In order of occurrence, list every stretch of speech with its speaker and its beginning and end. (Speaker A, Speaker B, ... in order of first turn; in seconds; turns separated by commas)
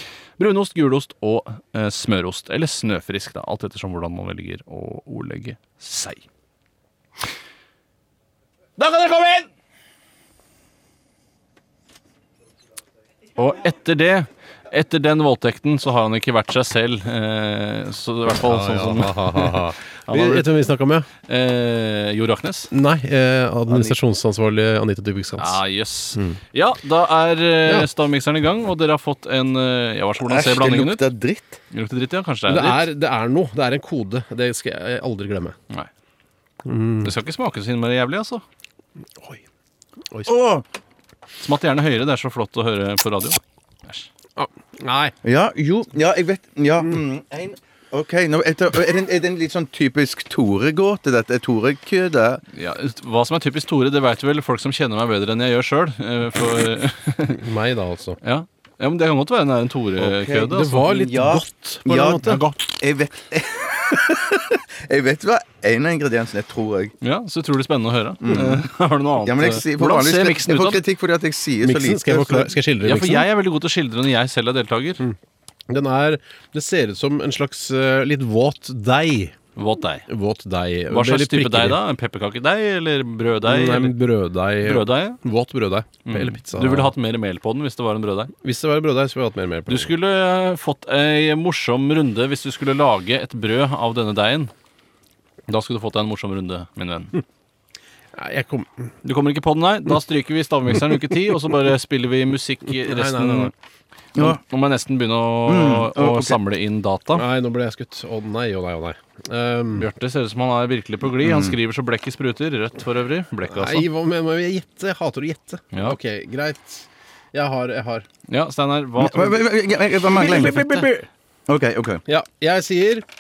Speaker A: 0.4-6.2, Speaker A: 8.8-9.5, Speaker A: 13.4-20.5, Speaker B: 18.4-21.1, Speaker A: 21.3-22.7, Speaker B: 22.7-25.6, Speaker A: 23.7-24.0, Speaker A: 25.4-31.1, Speaker C: 30.2-31.6, Speaker A: 31.7-32.9, Speaker B: 32.5-35.6, Speaker B: 36.6-37.1, Speaker A: 37.0-38.4, Speaker C: 40.2-40.6, Speaker A: 41.4-44.1, Speaker B: 44.4-45.1, Speaker C: 45.2-52.4, Speaker A: 52.5-57.4, Speaker B: 57.3-58.2, Speaker A: 58.2-60.9, Speaker C: 60.0-66.9, Speaker B: 60.5-62.4, Speaker A: 62.2-62.7, Speaker A: 67.0-70.8, Speaker C: 68.2-68.7, Speaker C: 69.2-72.5, Speaker B: 71.6-73.3, Speaker A: 72.8-75.0, Speaker B: 75.7-79.3, Speaker A: 79.6-80.1, Speaker B: 80.1-81.8, Speaker A: 80.9-84.0, Speaker B: 83.4-86.9, Speaker A: 84.6-85.2, Speaker A: 86.1-88.3, Speaker B: 88.4-89.9, Speaker A: 89.7-94.5, Speaker A: 95.5-97.2, Speaker B: 98.1-98.7, Speaker A: 99.0-103.5, Speaker B: 102.8-103.5, Speaker C: 104.2-104.4, Speaker A: 104.2-107.2, Speaker C: 105.5-106.4, Speaker B: 107.1-109.9, Speaker A: 109.8-113.9, Speaker C: 111.2-111.6, Speaker B: 113.5-118.1, Speaker A: 115.7-116.0, Speaker A: 118.3-119.5, Speaker C: 119.0-120.9, Speaker A: 120.1-120.9, Speaker B: 120.1-121.0, Speaker C: 121.5-122.0, Speaker B: 122.1-123.0